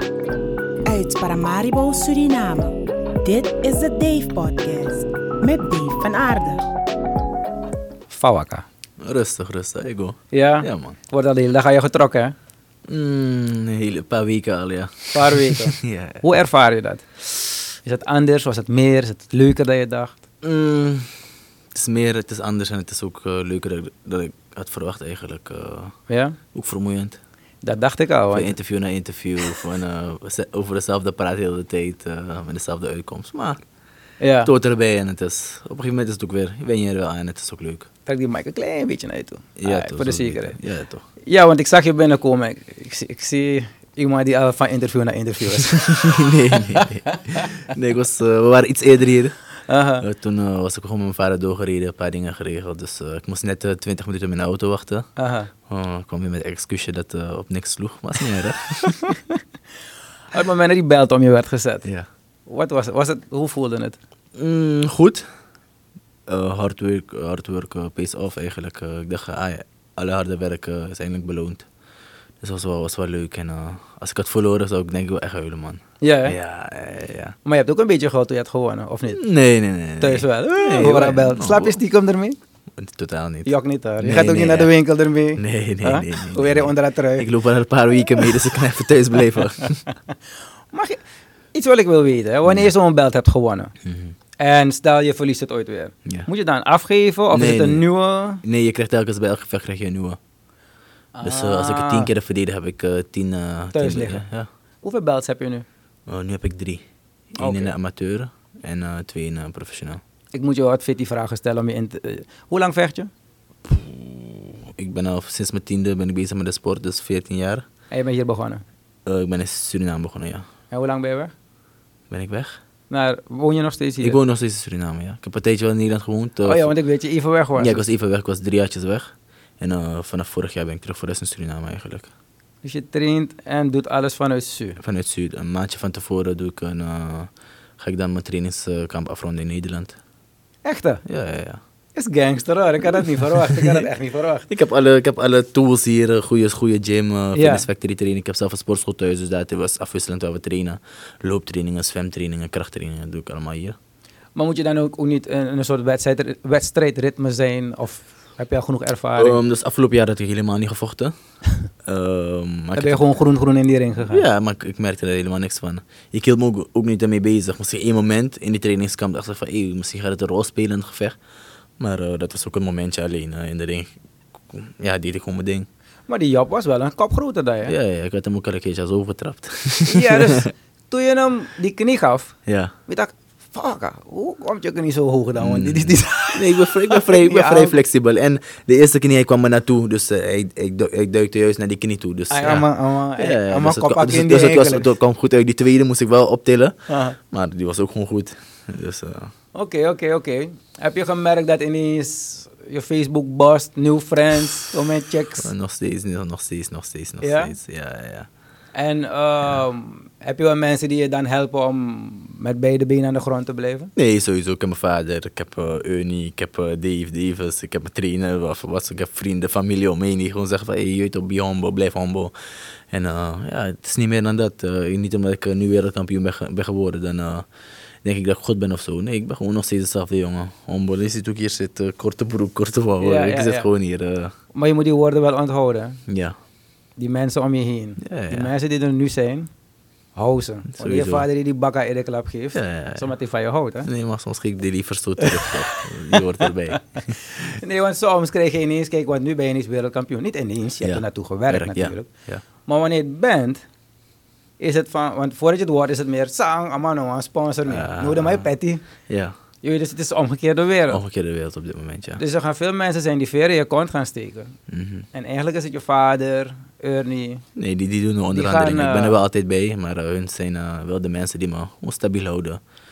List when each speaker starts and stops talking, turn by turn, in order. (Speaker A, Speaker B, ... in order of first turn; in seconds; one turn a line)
Speaker A: 0.8-6.7
Speaker B: 8.1-8.7
Speaker C: 9.0-11.0
Speaker B: 10.3-12.3
Speaker C: 12.9-16.2
Speaker B: 15.1-17.1
Speaker B: 17.8-20.2
Speaker C: 20.4-21.1
Speaker C: 21.7-25.9
Speaker B: 26.1-26.4
Speaker C: 26.5-27.2
Speaker B: 27.6-28.5
Speaker C: 28.3-33.6
Speaker B: 34.2-34.5
Speaker C: 34.4-37.9
Speaker B: 38.0-40.6
Speaker C: 39.6-41.0
Speaker B: 41.2-46.2
Speaker C: 45.7-49.4
Speaker B: 46.8-47.5
Speaker B: 49.7-50.0
Speaker C: 50.0-55.1
Speaker B: 55.2-55.5
Speaker C: 55.7-59.2
Speaker B: 58.9-59.4
Speaker B: 60.3-61.9
Speaker B: 62.5-64.0
Speaker C: 64.3-65.2
Speaker C: 66.3-71.7
Speaker C: 72.4-77.3
Speaker B: 76.0-76.4
Speaker B: 77.4-79.2
Speaker C: 79.2-81.8
Speaker B: 80.0-82.4
Speaker C: 82.8-83.5
Speaker B: 83.5-87.3
Speaker C: 84.0-84.7
Speaker C: 85.4-89.8
Speaker B: 90.7-91.0
Speaker B: 91.5-93.7
Speaker C: 92.5-92.7
Speaker C: 93.8-94.1
Speaker B: 94.4-98.4
Speaker C: 97.3-97.8
Speaker C: 98.4-100.2
Speaker B: 101.1-102.1
Speaker C: 101.2-104.5
Speaker B: 103.7-104.2
Speaker B: 104.8-105.6
Speaker C: 106.1-106.8
Speaker C: 107.3-110.0
Speaker B: 107.4-107.7
Speaker B: 110.3-113.1
Speaker C: 113.6-117.7
Speaker B: 117.9-118.6
Speaker C: 119.0-120.5
Speaker B: 120.7-121.3
Speaker C: 122.1-122.6
Speaker B: 122.9-124.2
Speaker C: 124.0-126.7
Speaker B: 126.4-127.8
Speaker C: 127.5-132.1
Speaker B: 132.6-134.8
Speaker C: 134.8-140.0
Speaker B: 140.6-141.0
Speaker C: 141.1-141.6
Speaker B: 141.9-144.5
Speaker C: 142.9-143.8
Speaker C: 144.5-153.8
Speaker B: 147.3-147.7
Speaker B: 154.3-159.4
Speaker C: 159.2-161.1
Speaker C: 161.8-163.1
Speaker B: 162.8-164.2
Speaker C: 164.1-171.2
Speaker C: 171.8-173.9
Speaker C: 174.5-175.7
Speaker B: 176.1-177.7
Speaker C: 177.7-180.5
Speaker B: 179.9-187.8
Speaker C: 182.4-182.7
Speaker C: 185.4-199.3
Speaker B: 192.3-194.9
Speaker B: 196.9-197.2
Speaker B: 199.5-205.5
Speaker C: 205.4-208.3
Speaker B: 207.2-207.5
Speaker B: 208.7-213.9
Speaker C: 213.9-222.3
Speaker C: 222.9-227.5
Speaker C: 228.0-234.3
Speaker B: 233.0-233.7
Speaker B: 234.5-236.0
Speaker C: 236.1-236.3
Speaker B: 237.0-239.5
Speaker C: 238.0-238.5
Speaker B: 240.1-243.9
Speaker C: 240.7-241.3
Speaker C: 242.5-243.1
Speaker C: 243.8-247.6
Speaker B: 245.2-246.2
Speaker B: 246.7-252.1
Speaker C: 250.8-252.4
Speaker B: 252.6-253.6
Speaker B: 254.6-258.8
Speaker C: 257.7-258.5
Speaker C: 259.1-259.3
Speaker B: 259.6-261.0
Speaker C: 260.9-262.2
Speaker B: 262.2-264.6
Speaker C: 264.7-265.1
Speaker B: 265.1-267.4
Speaker C: 267.6-272.6
Speaker B: 268.3-269.2